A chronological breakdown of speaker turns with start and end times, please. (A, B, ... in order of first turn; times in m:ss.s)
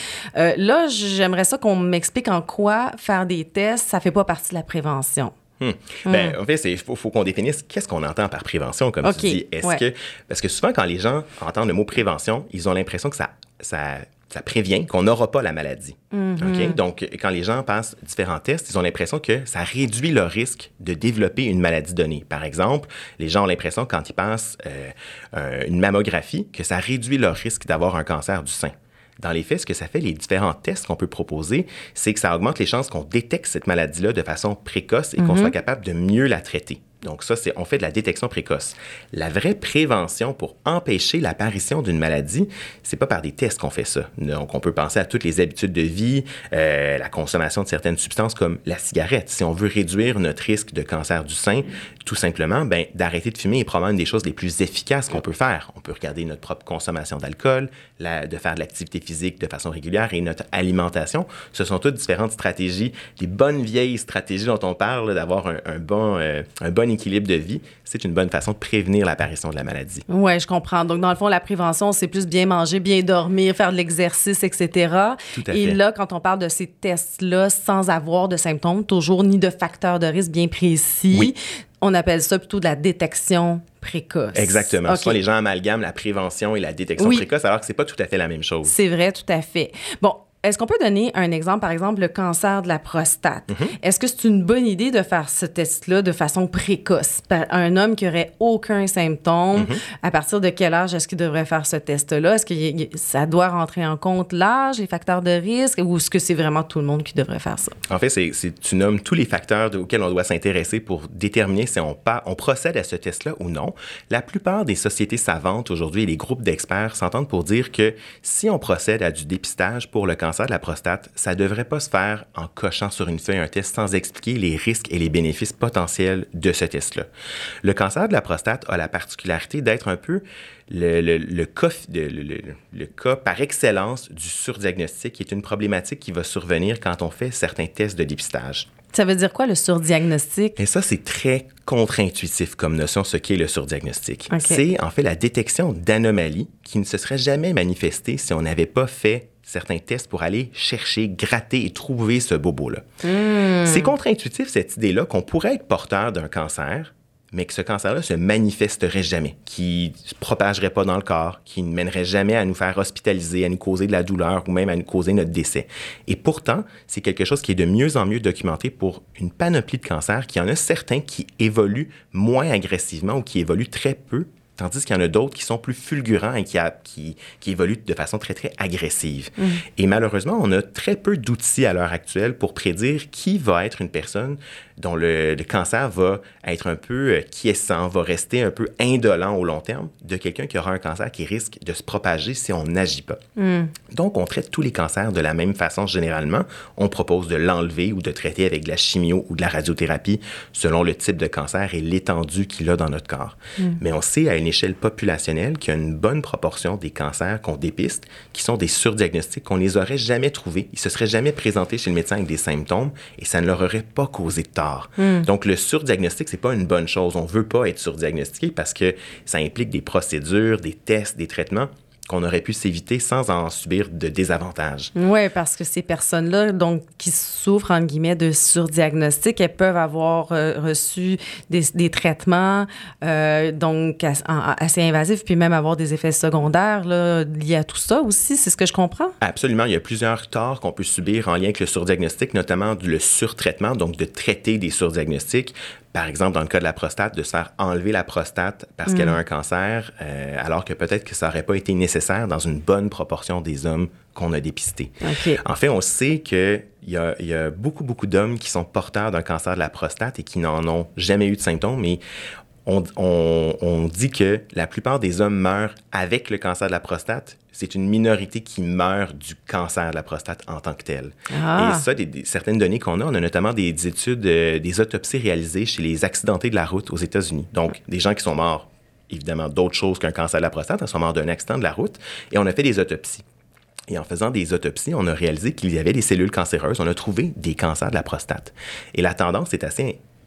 0:00.3-0:05.4 A
0:05.6-1:10.0 B
0:06.0-0:06.4 A
0:09.0-0:09.8 A
0:16.1-0:16.8 A
0:35.2-0:35.5 A
1:10.1-1:25.2 A
1:15.3-1:15.8 B
1:24.3-1:28.7 B
1:27.0-1:27.2 A
1:28.6-1:47.8 A
1:39.5-1:39.8 B
1:47.9-2:07.1 B
2:07.6-2:18.7 B
2:18.9-2:20.6 A
2:20.6-2:32.8 B
2:24.3-2:24.6 A
2:33.0-2:33.9 A
2:33.6-3:13.2 B
2:59.4-2:59.6 A
3:13.4-3:13.7 A
3:13.9-3:44.9 B
3:35.0-3:35.3 A
3:44.9-3:59.1 A
3:59.2-4:22.0 B
4:08.8-4:09.2 A
4:15.0-4:15.4 A
4:22.6-4:43.2 B
4:31.3-4:31.8 A
4:43.9-4:50.0 B